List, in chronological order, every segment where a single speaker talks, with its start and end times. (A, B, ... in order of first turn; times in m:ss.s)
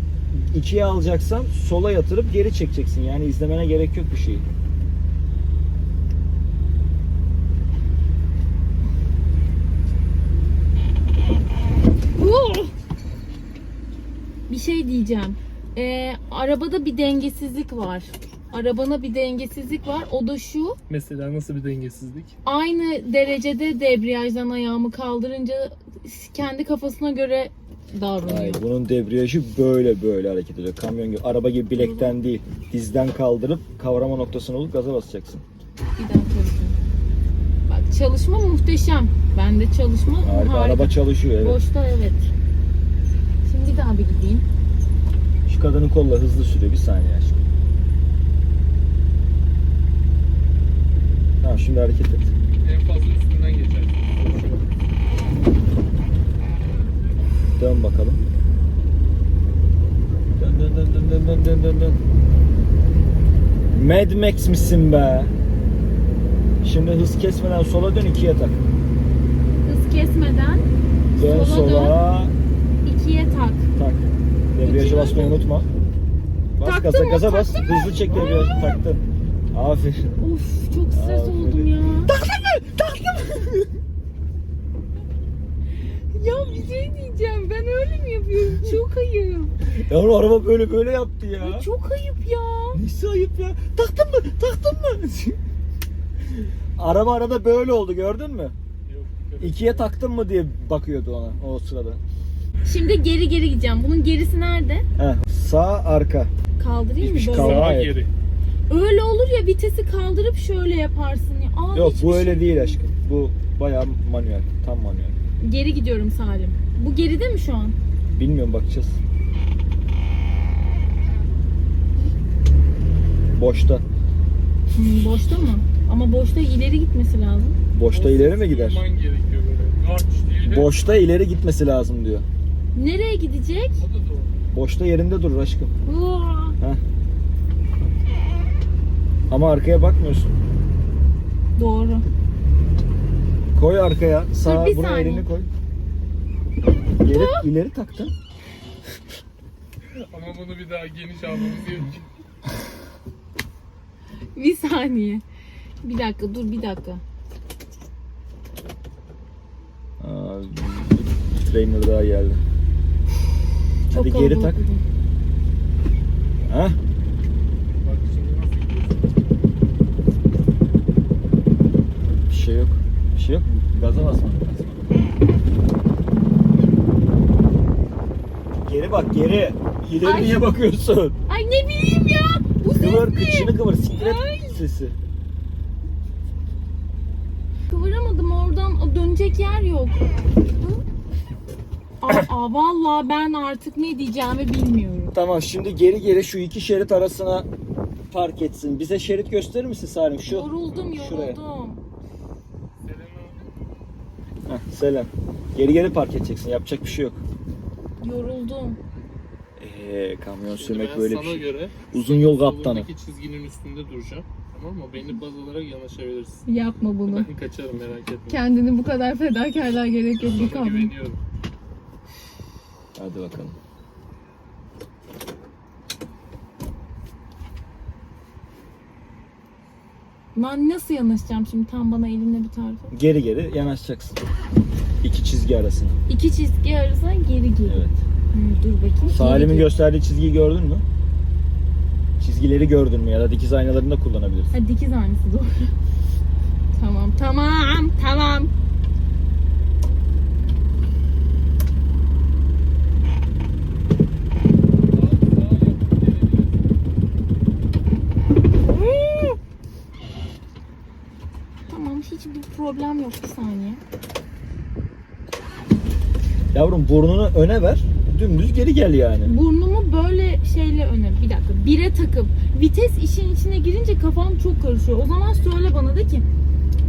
0:00.3-0:04.4 A
0:12.2-0:12.7 B
0:14.5-0:20.8 B
0:20.9-0:22.3 C
0:22.4-0:28.6 B
0:28.2-0:35.4 A
0:31.8-0:32.1 B
0:36.0-0:36.8 B
0:37.7-0:42.3 B
0:40.2-0:41.6 A
0:43.4-0:44.4 B
0:45.5-0:47.4 A
0:51.4-0:52.3 A
0:52.6-0:54.6 C
0:57.6-0:58.2 A
1:00.4-1:02.0 A
1:03.7-1:05.3 A
1:06.6-1:08.6 A
1:09.6-1:12.0 B
1:11.1-1:12.3 A
1:12.8-1:13.7 B
1:13.8-1:15.7 A
1:14.6-1:15.4 B
1:16.6-1:20.2 A
1:16.6-1:18.7 B
1:20.2-1:22.1 B
1:20.9-1:23.7 A
1:25.9-1:29.6 B
1:29.6-1:31.7 A
1:31.4-1:32.8 B
1:32.7-1:35.4 A
1:36.3-1:38.6 A
1:38.9-1:39.9 C
1:39.4-1:42.0 A
1:42.6-1:44.8 B
1:45.0-1:46.3 A
1:46.6-1:47.8 B
1:47.0-1:47.9 A
1:47.3-1:48.1 C
1:48.7-1:52.8 B
1:51.7-1:55.2 A
1:55.4-1:57.7 B
1:58.2-1:59.0 A
2:03.3-2:03.8 A
2:04.7-2:07.6 B
2:07.7-2:08.8 A
2:07.9-2:10.7 C
2:10.5-2:12.3 A
2:12.7-2:13.8 B
2:13.8-2:14.3 C
2:14.5-2:15.7 A
2:15.8-2:16.6 B
2:19.3-2:20.3 A
2:21.6-2:22.0 B
2:23.5-2:25.5 A
2:24.4-2:25.3 B
2:27.0-2:28.1 A
2:27.1-2:27.4 B
2:30.0-2:32.0 C
2:34.3-2:35.2 B
2:35.8-2:37.0 B
2:40.0-2:42.4 A
2:43.9-2:44.8 B
2:43.9-2:44.6 A
2:46.4-2:46.8 A
2:47.8-2:49.1 C
2:52.3-2:54.8 A
2:58.6-3:01.2 A
3:00.0-3:00.5 B
3:01.3-3:04.6 B
3:02.8-3:05.0 A
3:07.7-3:10.8 B
3:12.0-3:15.1 B
3:15.1-3:17.5 A
3:18.1-3:21.4 A
3:20.2-3:21.8 B
3:22.8-3:23.5 C
3:24.5-3:27.2 A
3:28.0-3:28.8 B
3:29.6-3:32.9 A
3:30.5-3:36.4 C
3:36.5-3:37.3 B
3:37.1-3:38.4 C
3:38.3-3:40.9 B
3:40.3-3:41.2 C
3:43.0-3:43.6 A
3:50.3-3:52.9 B
3:52.9-3:54.2 A
3:55.0-3:56.0 A
3:56.1-3:59.7 B
3:57.6-3:58.0 A
3:59.1-4:00.8 A
4:02.2-4:04.5 A
4:04.5-4:05.7 B
4:06.8-4:08.5 B
4:14.9-4:16.8 C
4:18.6-4:19.4 B
4:21.7-4:23.8 B
4:26.5-4:29.3 A
4:29.2-4:36.2 B